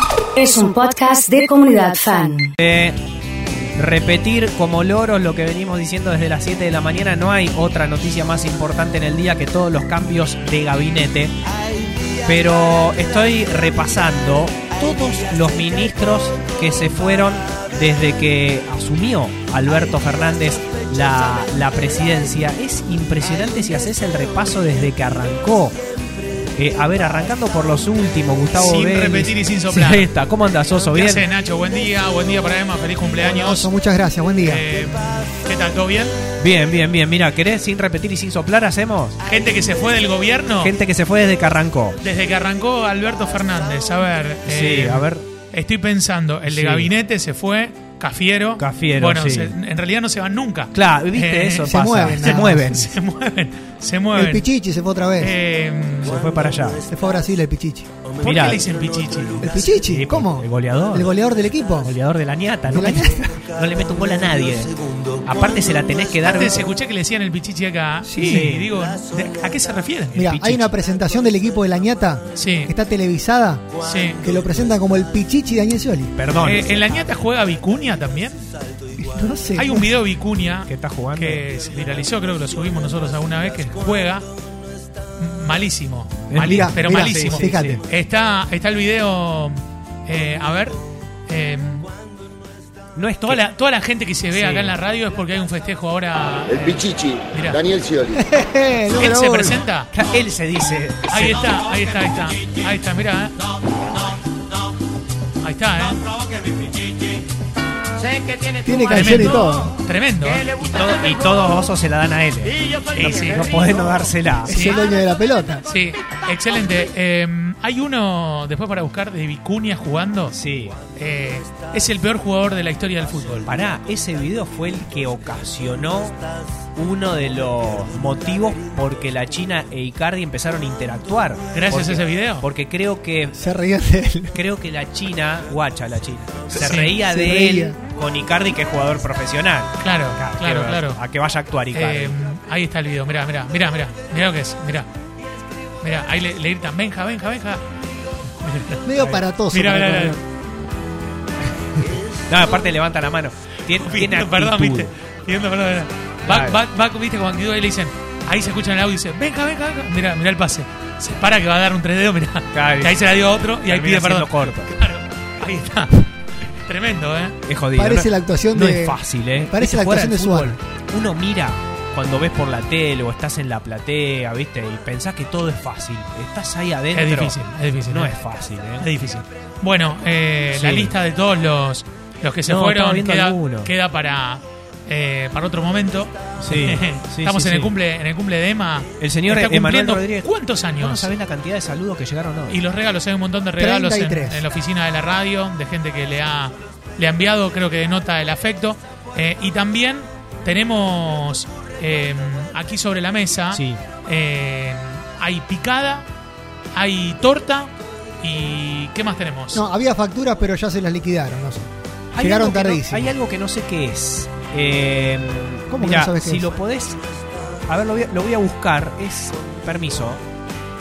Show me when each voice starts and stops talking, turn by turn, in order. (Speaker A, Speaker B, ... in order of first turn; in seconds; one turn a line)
Speaker A: 0.3-2.5
Speaker B: 2.6-3.0
Speaker B: 3.8-11.3
Speaker B: 12.2-25.8
Speaker B: 26.6-31.3
Speaker C: 28.6-30.1
Speaker C: 30.9-33.7
Speaker D: 33.2-34.6
Speaker C: 34.4-36.2
Speaker B: 36.4-39.2
Speaker C: 39.2-40.7
Speaker B: 40.6-42.0
Speaker C: 42.0-54.5
Speaker B: 44.5-45.3
Speaker B: 46.5-46.9
Speaker B: 48.6-49.5
Speaker B: 50.7-52.9
Speaker D: 51.6-52.7
Speaker D: 54.1-55.4
Speaker C: 55.2-56.2
Speaker B: 56.0-56.8
Speaker D: 56.9-57.9
Speaker B: 58.2-58.6
Speaker C: 58.2-59.5
Speaker D: 59.4-61.9
Speaker B: 59.8-61.1
Speaker B: 61.8-66.7
Speaker D: 62.7-63.4
Speaker C: 66.2-70.2
Speaker D: 68.1-68.5
Speaker B: 68.2-68.7
Speaker B: 70.1-70.7
Speaker D: 70.2-73.6
Speaker C: 72.3-72.7
Speaker C: 73.8-74.2
Speaker D: 74.2-76.2
Speaker B: 76.2-76.7
Speaker C: 76.4-78.4
Speaker D: 79.0-79.9
Speaker C: 79.5-84.3
Speaker B: 80.7-81.5
Speaker C: 85.2-91.9
Speaker B: 86.3-87.8
Speaker D: 86.4-87.8
Speaker B: 93.0-93.4
Speaker C: 93.2-97.8
Speaker B: 94.3-94.8
Speaker A: 97.0-98.1
Speaker D: 98.1-99.6
Speaker C: 99.0-99.9
Speaker B: 99.9-101.4
Speaker C: 101.1-103.3
Speaker C: 105.4-106.0
Speaker D: 108.6-109.8
Speaker C: 108.9-110.5
Speaker B: 110.5-114.6
Speaker C: 112.9-113.5
Speaker C: 114.5-114.8
Speaker D: 114.5-115.7
Speaker C: 115.7-120.3
Speaker B: 120.3-120.8
Speaker C: 121.0-123.5
Speaker B: 123.5-126.2
Speaker B: 126.8-133.4
Speaker C: 131.5-132.4
Speaker D: 133.4-134.4
Speaker B: 134.3-142.2
Speaker C: 136.6-137.0
Speaker D: 136.9-137.8
Speaker C: 139.8-141.0
Speaker C: 141.7-144.9
Speaker C: 145.8-147.6
Speaker C: 148.4-150.2
Speaker D: 148.8-150.2
Speaker B: 152.3-154.9
Speaker C: 153.7-167.4
Speaker B: 156.3-156.6
Speaker B: 162.5-163.0
Speaker B: 163.7-164.7
Speaker B: 167.5-177.4
Speaker D: 167.8-170.6
Speaker C: 176.9-178.2
Speaker B: 177.9-178.9
Speaker C: 178.8-191.1
Speaker B: 180.5-181.0
Speaker B: 182.4-183.7
Speaker B: 186.4-187.8
Speaker B: 189.0-192.6
Speaker C: 192.5-206.1
Speaker D: 193.6-194.5
Speaker B: 203.5-203.8
Speaker C: 206.8-209.6
Speaker D: 209.5-213.2
Speaker B: 212.1-217.0
Speaker D: 215.7-216.6
Speaker B: 217.7-220.2